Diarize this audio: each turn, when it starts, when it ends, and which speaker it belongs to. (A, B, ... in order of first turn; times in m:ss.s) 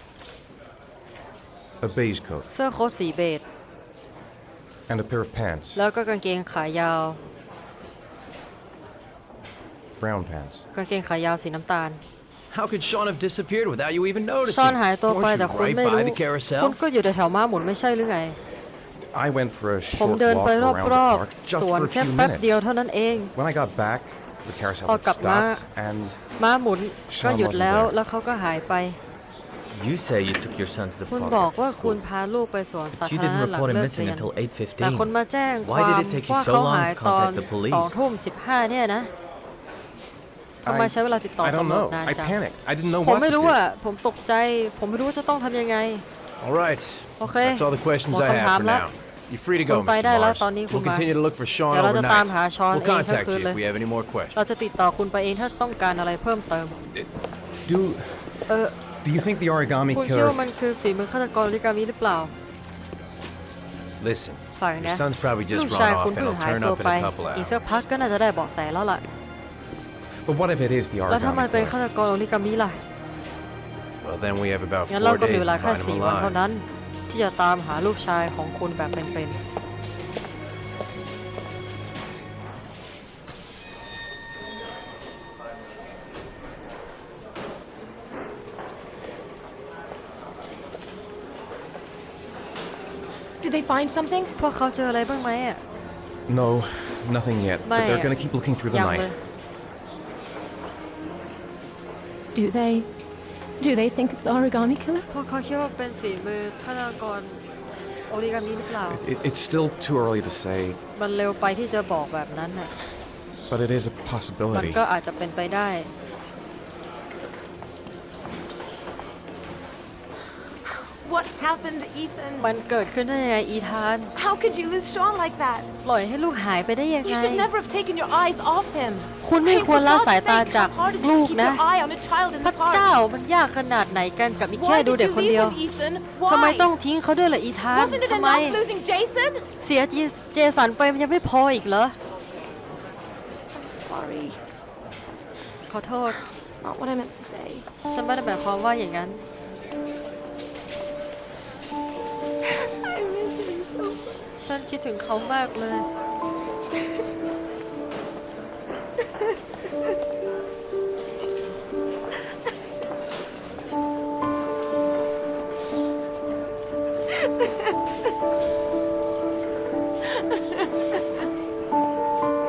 0:01.8-0:02.5 A
0:02.5-0:03.4 B
0:04.9-0:05.8 A
0:05.8-0:07.2 B
0:10.0-0:10.7 A
0:10.7-0:12.0 B
0:12.5-0:16.8 C
0:14.4-0:18.4 B
0:19.0-0:22.6 A
0:19.9-0:23.3 B
0:23.3-0:26.3 A
0:24.8-0:25.6 B
0:26.4-0:29.0 B
0:27.1-0:28.0 A
0:29.7-0:32.0 D
0:31.1-0:39.1 B
0:32.9-0:38.1 D
0:40.6-0:42.4 B
0:40.6-0:43.6 A
0:43.0-0:46.0 B
0:46.4-0:54.4 C
0:47.2-0:48.9 B
0:49.7-0:51.1 B
0:51.7-0:53.6 B
0:54.3-0:56.8 B
0:57.7-0:58.5 A
0:58.5-0:58.8 B
0:59.0-1:00.4 A
0:59.9-1:02.3 B
1:04.0-1:07.6 C
1:04.6-1:09.0 B
1:10.2-1:11.8 A
1:11.1-1:12.8 B
1:14.0-1:16.4 C
1:14.9-1:19.4 B
1:33.4-1:34.3 E
1:34.4-1:35.6 B
1:36.3-1:39.1 A
1:37.6-1:38.2 B
1:38.7-1:39.2 B
1:42.4-1:42.9 E
1:43.6-1:45.1 E
1:45.1-1:47.4 B
1:48.1-1:49.0 B
1:48.9-1:50.8 A
1:51.0-1:52.7 B
1:53.5-1:54.8 A
1:54.5-1:55.9 B
2:00.6-2:02.5 E
2:02.4-2:04.1 B
2:04.2-2:05.7 E
2:05.8-2:07.5 B
2:07.0-2:13.0 E
2:09.2-2:11.6 B
2:12.4-2:15.6 B
2:14.5-2:16.7 E
2:16.3-2:18.6 B
2:17.7-2:19.5 E
2:19.6-2:22.0 B
2:23.5-2:24.4 E
2:25.7-2:26.2 B
2:26.1-2:27.7 E
2:27.8-2:29.2 B
2:32.4-2:34.2 E
2:34.4-2:35.9 B
2:36.8-2:37.0 E